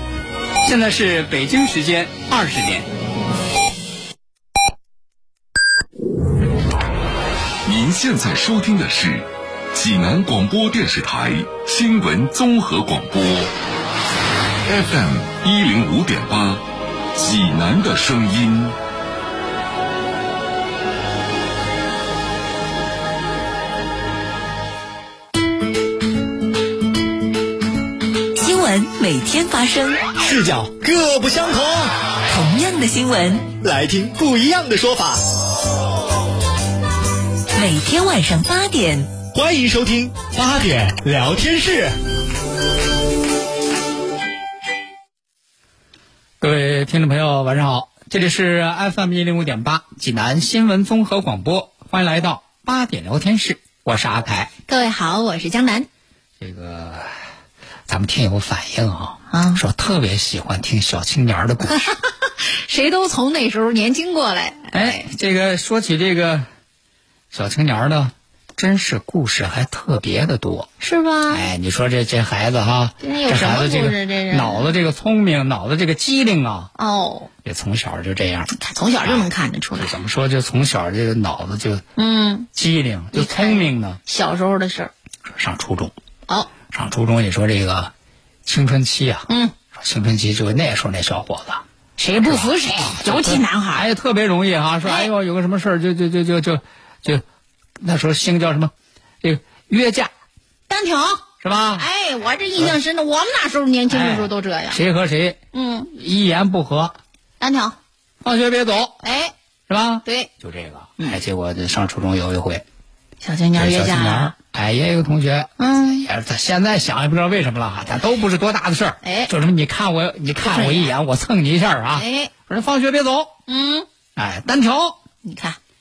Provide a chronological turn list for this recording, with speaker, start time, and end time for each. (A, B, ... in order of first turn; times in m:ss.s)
0:00.6-0:02.9 A
0:07.6-0:13.5 B
0:14.7-0:18.8 B
0:28.4-0:30.0 C
0:30.2-0:31.9 D
0:32.3-0:33.6 C
0:33.6-0:35.2 D
0:37.5-0:39.2 C
0:39.3-0:41.9 D
0:46.4-0:54.5 A
0:54.7-0:55.9 E
0:56.4-0:57.1 A
0:57.9-1:01.9 A
0:59.3-0:59.6 E
1:01.6-1:05.0 E
1:04.7-1:06.5 A
1:07.3-1:10.7 A
1:10.8-1:11.5 E
1:11.3-1:16.7 A
1:13.0-1:14.8 E
1:16.8-1:17.3 E
1:17.4-1:21.8 A
1:18.5-1:19.9 E
1:22.0-1:22.5 E
1:22.5-1:24.0 A
1:23.1-1:24.9 E
1:25.4-1:25.9 A
1:26.7-1:27.9 A
1:28.5-1:31.6 A
1:29.3-1:29.6 E
1:32.0-1:33.9 E
1:32.2-1:37.2 A
1:34.8-1:35.1 E
1:37.8-1:40.1 A
1:40.7-1:44.8 E
1:41.4-1:41.9 A
1:43.9-1:47.0 A
1:45.5-1:45.9 E
1:47.4-1:47.8 E
1:48.2-1:49.0 A
1:49.0-1:49.3 E
1:49.7-1:52.6 A
1:50.0-1:50.3 E
1:53.2-1:54.3 E
1:53.5-2:03.4 A
1:55.6-1:56.1 E
1:59.0-1:59.3 E
2:00.4-2:00.9 E
2:01.9-2:02.3 E
2:03.5-2:03.9 E
2:04.2-2:05.0 A
2:05.2-2:05.6 E